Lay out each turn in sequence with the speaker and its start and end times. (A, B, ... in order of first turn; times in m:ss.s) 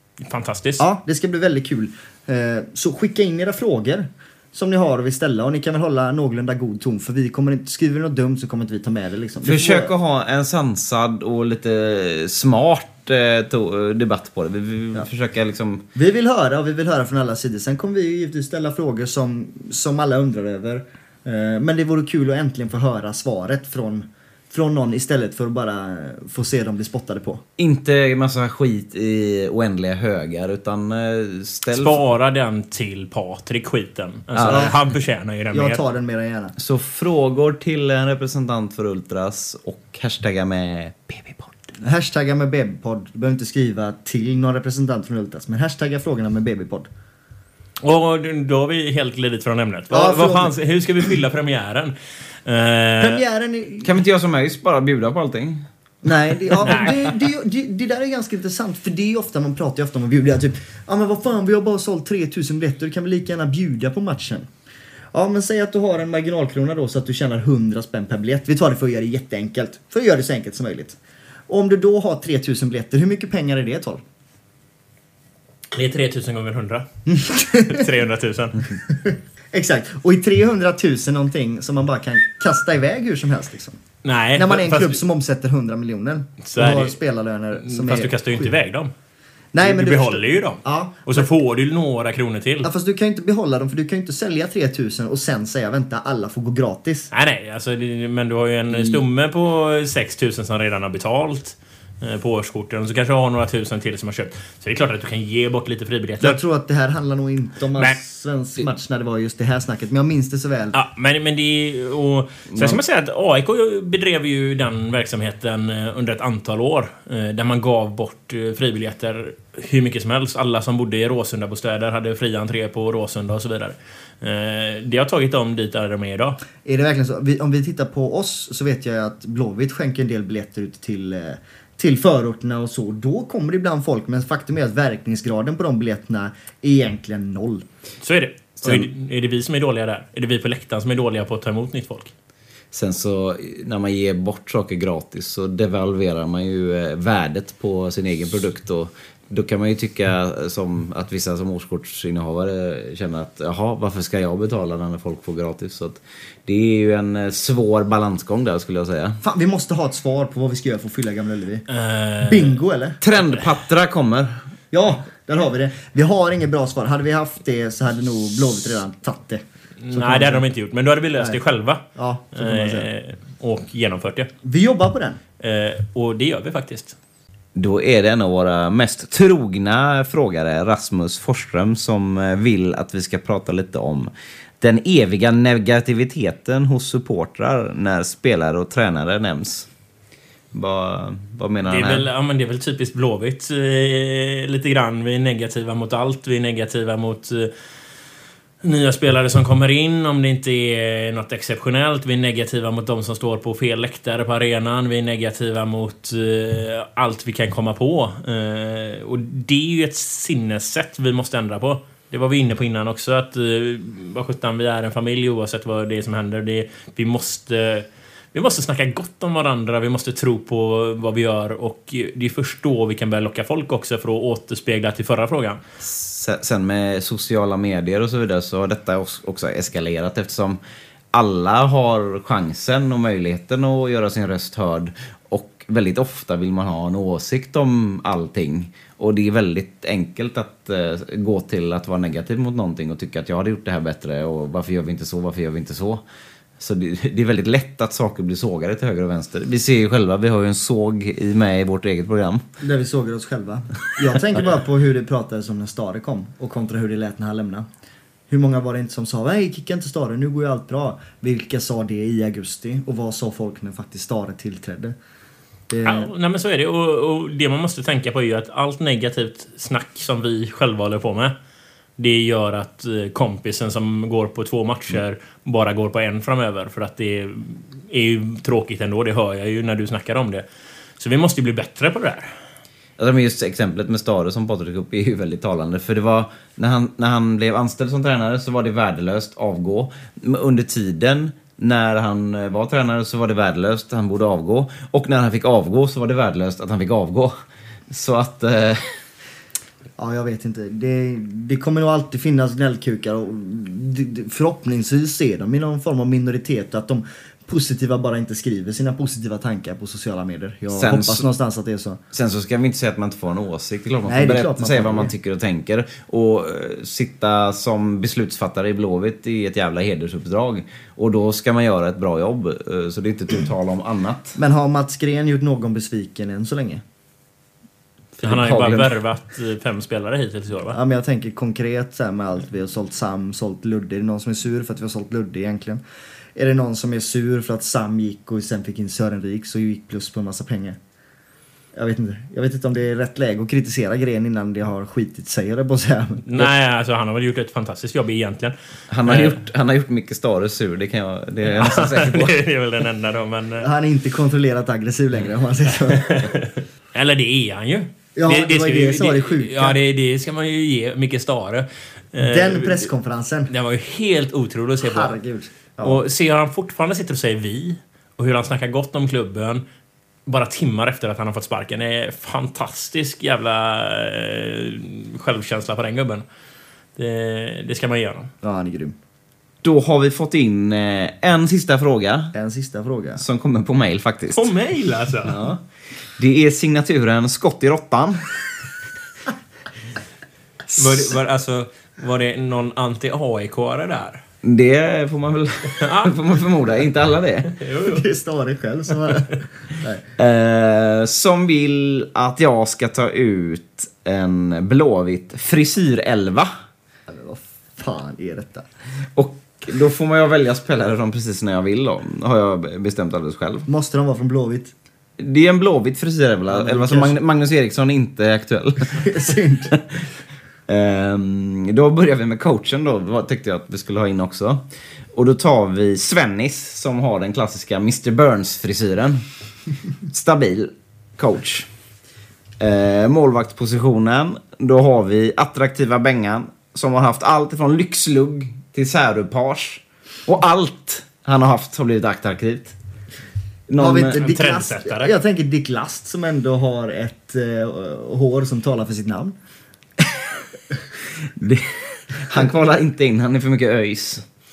0:00.2-0:00.8 A
0:00.8-0:09.9 B
0:09.4-0:15.8 C
0:15.9-0:27.4 B
0:27.6-0:32.0 C
0:31.7-0:35.8 A
0:34.4-0:34.7 C
0:34.4-0:34.7 B
0:35.5-0:36.5 B
0:36.6-0:41.7 C
0:41.8-0:46.9 B
0:47.8-0:53.2 A
0:49.9-0:50.6 B
0:53.0-0:53.9 B
0:53.8-0:55.6 C
0:56.0-1:04.5 B
0:56.6-0:56.9 A
1:05.1-1:14.0 B
1:15.7-1:16.8 A
1:17.1-1:17.9 B
1:17.6-1:18.7 A
1:18.9-1:23.8 B
1:24.0-1:25.0 A
1:24.3-1:28.5 B
1:26.4-1:27.0 A
1:27.5-1:28.9 A
1:29.5-1:31.3 B
1:29.6-1:32.7 A
1:32.6-1:37.1 B
1:37.1-1:46.4 A
1:46.2-1:50.7 B
1:50.7-2:06.4 A
1:52.5-1:52.8 C
2:06.6-2:17.6 B
2:18.0-2:22.1 A
2:22.7-2:39.2 C
2:39.2-2:41.6 B
2:41.7-2:42.6 A
2:42.2-2:43.0 B
2:43.0-2:44.4 C
2:43.2-2:43.4 A
2:44.7-2:50.4 B
2:49.8-2:54.3 A
2:51.9-2:52.9 B
2:54.4-2:55.2 B
2:55.4-2:57.0 A
2:57.6-3:04.1 C
3:04.6-3:09.7 C
3:10.5-3:12.0 C
3:11.7-3:17.5 A
3:18.6-3:45.6 A
3:45.8-3:50.6 C
3:51.1-4:06.0 C
4:06.6-4:12.4 C
4:12.6-4:17.6 B
4:18.3-4:25.0 B
4:25.7-4:26.1 B
4:25.8-4:31.3 A
4:32.0-4:40.4 A
4:41.0-4:42.3 A
4:43.0-4:57.3 C
4:57.9-4:58.8 C
5:00.0-5:12.0 B
5:10.7-5:11.2 C
5:12.1-5:24.4 C
5:14.0-5:15.1 B
5:24.4-5:26.8 B
5:28.2-5:28.9 C
5:28.2-5:30.8 A
5:30.7-5:35.8 B
5:36.3-5:40.8 B
5:41.7-5:46.5 B
5:46.2-5:48.5 A
5:48.9-5:52.4 C
5:49.0-5:49.4 A
5:51.6-5:53.7 A
5:53.6-5:56.0 B
5:56.0-6:02.9 A
5:58.2-5:59.8 B
6:02.2-6:03.5 B
6:03.5-6:05.1 A
6:04.8-6:06.0 B
6:05.8-6:09.6 A
6:10.2-6:16.2 A
6:17.0-6:18.3 A
6:18.4-6:19.0 B
6:19.6-6:22.3 C
6:22.3-6:23.2 B
6:23.2-6:24.5 C
6:24.3-6:25.4 A
6:25.2-6:25.6 C
6:26.2-6:28.3 C
6:30.7-6:31.0 C
6:30.7-6:34.2 A
6:34.4-6:37.5 C
6:35.8-6:36.1 A
6:37.6-6:38.0 A
6:37.8-6:40.0 B
6:40.2-6:46.5 C
6:47.1-6:48.7 B
6:49.2-6:53.7 C
6:53.7-6:54.7 B
6:55.2-7:00.0 C
6:56.5-6:57.2 B
6:59.0-6:59.7 B
7:00.7-7:04.6 C
7:05.1-7:09.2 C
7:10.1-7:11.7 C
7:12.6-7:22.7 C
7:23.7-7:24.2 C
7:23.8-7:29.4 B
7:24.2-7:25.1 A
7:31.4-7:34.2 C